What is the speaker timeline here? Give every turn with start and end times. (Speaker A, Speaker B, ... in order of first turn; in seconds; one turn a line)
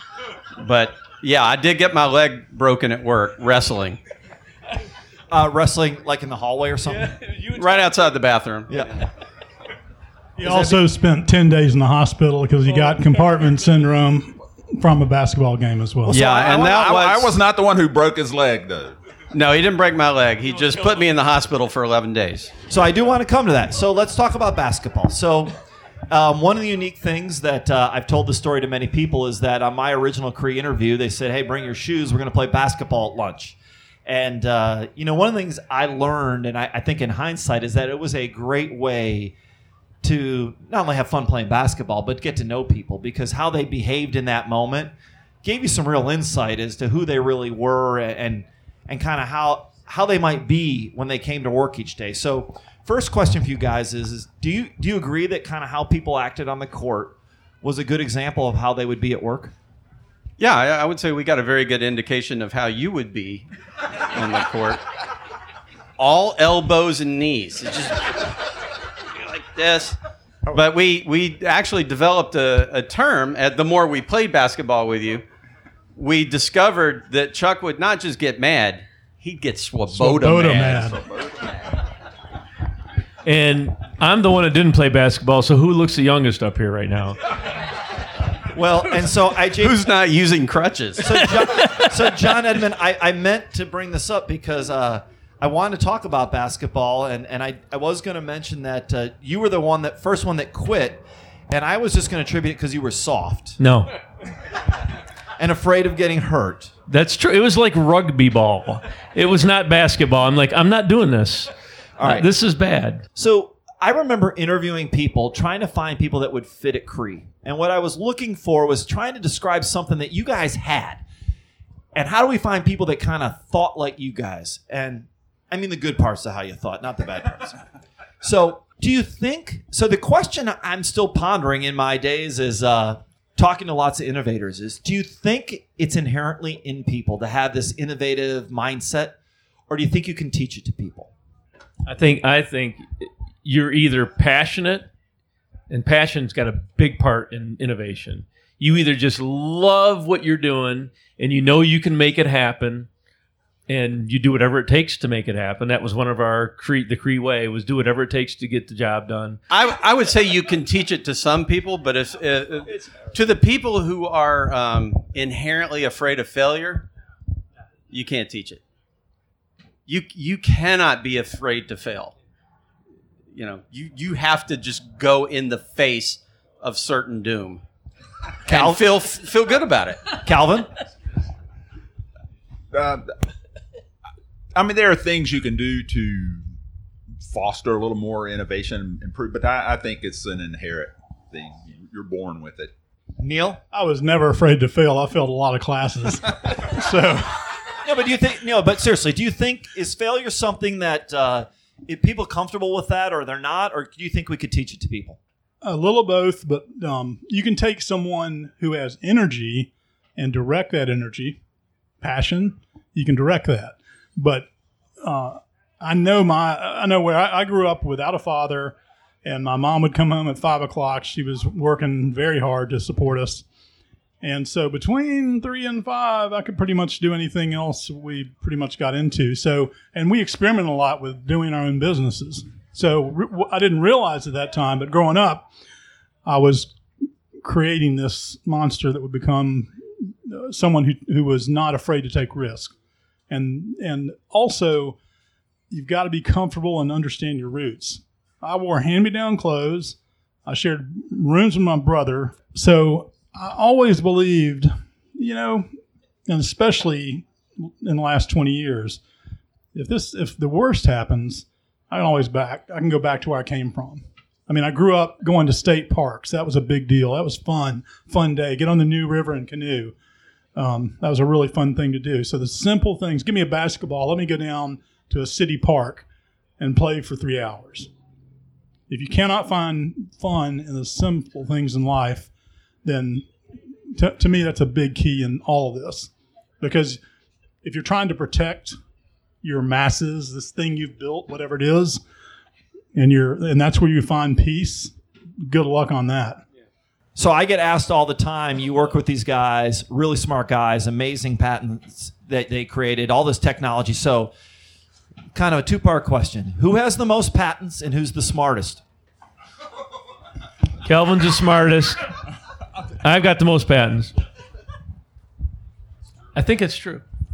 Speaker A: 0.6-4.0
Speaker B: 5.3-7.2
Speaker C: 6.9-7.9
Speaker A: 7.5-9.1
Speaker B: 8.7-9.0
Speaker D: 10.4-16.1
Speaker B: 10.4-10.8
Speaker C: 12.7-13.5
Speaker B: 16.0-16.8
Speaker A: 16.1-17.4
Speaker E: 16.5-18.9
Speaker A: 19.3-22.6
Speaker B: 22.7-25.6
Speaker B: 26.1-39.3
Speaker B: 40.0-59.5
Speaker A: 60.4-63.5
Speaker A: 64.1-64.8
Speaker A: 66.0-68.5
Speaker A: 69.1-70.0
Speaker A: 70.5-75.2
Speaker A: 76.0-81.4
Speaker D: 79.9-81.0
Speaker C: 83.2-87.2
Speaker B: 88.5-89.8
Speaker A: 89.5-91.2
Speaker B: 91.0-103.6
Speaker C: 91.6-91.9
Speaker C: 103.6-103.9
Speaker B: 105.4-106.7
Speaker C: 106.9-113.0
Speaker B: 112.0-112.3
Speaker B: 113.2-121.0
Speaker B: 121.9-127.6
Speaker B: 128.2-139.2
Speaker B: 139.7-141.1
Speaker C: 141.9-144.9
Speaker C: 145.7-152.9
Speaker C: 153.7-159.4
Speaker A: 159.5-166.9
Speaker A: 167.9-168.6
Speaker A: 169.9-172.2
Speaker A: 173.3-177.6
Speaker A: 178.4-180.2
Speaker B: 178.5-178.8
Speaker B: 180.2-180.7
Speaker E: 182.7-183.1
Speaker E: 184.5-186.4
Speaker E: 187.2-192.7
Speaker B: 193.2-193.6
Speaker D: 193.7-197.6
Speaker B: 197.8-205.2
Speaker D: 205.6-211.4
Speaker D: 212.0-214.5
Speaker D: 215.0-223.4
Speaker D: 224.2-235.5
Speaker D: 236.2-236.8
Speaker D: 237.4-242.7
Speaker D: 243.3-245.0
Speaker D: 245.7-255.7
Speaker D: 256.3-259.0
Speaker D: 259.7-269.9
Speaker D: 270.6-276.1
Speaker D: 276.6-277.9
Speaker D: 278.9-282.3
Speaker D: 282.8-283.3
Speaker D: 283.9-287.0
Speaker D: 287.6-288.8
Speaker D: 289.4-292.0
Speaker D: 292.9-296.4
Speaker B: 297.1-304.3
Speaker B: 305.3-308.8
Speaker C: 310.8-312.1
Speaker C: 313.0-314.1
Speaker C: 316.3-317.0